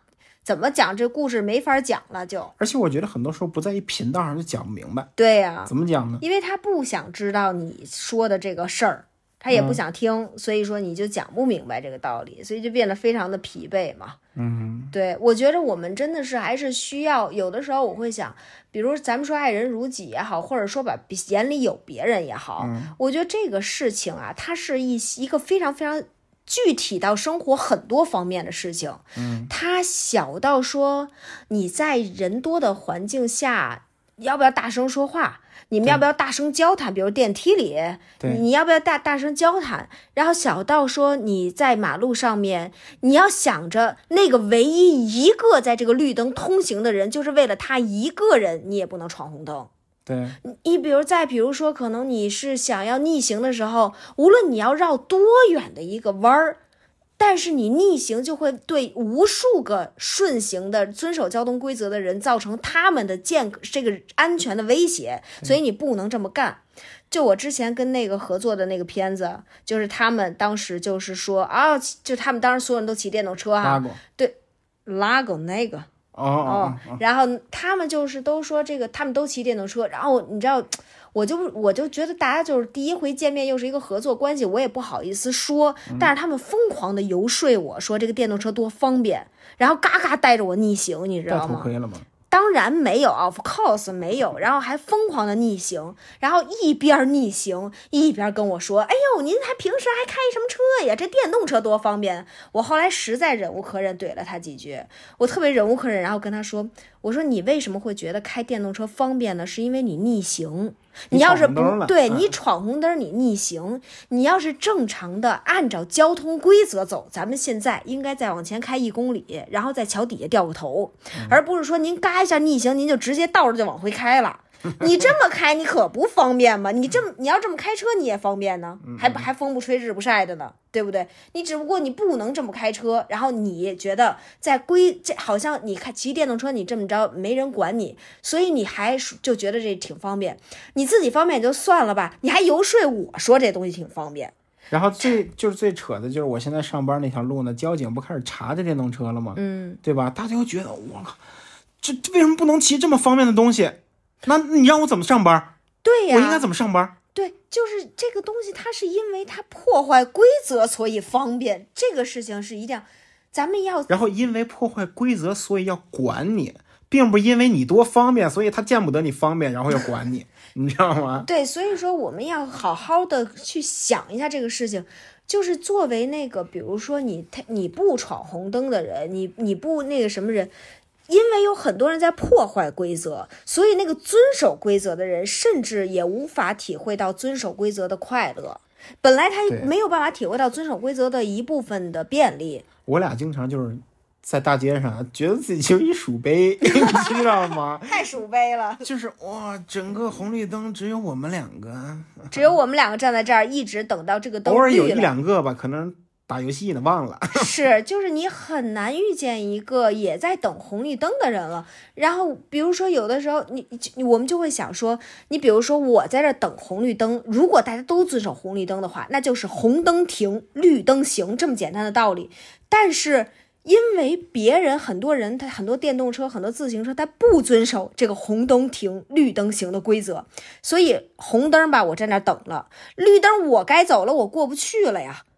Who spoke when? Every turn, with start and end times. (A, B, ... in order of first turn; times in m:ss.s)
0:00.4-0:02.5 A
0:02.6-0:05.1 B
0:05.2-0:14.2 A
0:05.7-0:06.2 B
0:09.5-0:09.8 B
0:14.4-0:14.9 B
0:14.9-0:49.7 A
0:22.6-0:22.9 B
0:29.2-0:29.5 B
0:50.0-0:50.4 B
0:50.4-0:56.6 A
0:57.2-1:15.9 A
1:13.6-1:14.0 B
1:16.1-1:17.0 B
1:16.4-1:31.7 A
1:31.3-1:32.1 B
1:32.3-2:24.3 A
1:51.1-1:52.3 B
2:08.8-2:09.3 B
2:24.7-2:31.2 B
2:29.4-2:29.8 A
2:31.8-2:35.5 B
2:35.8-2:36.5 A
2:36.1-2:36.9 B
2:37.1-2:43.9 A
2:43.9-2:51.3 B
2:51.2-3:00.5 A
3:01.1-3:12.7 A
3:12.8-3:18.0 B
3:16.6-3:18.9 A
3:18.8-3:22.4 B
3:22.3-3:25.1 A
3:24.4-3:27.5 B
3:27.3-3:55.2 A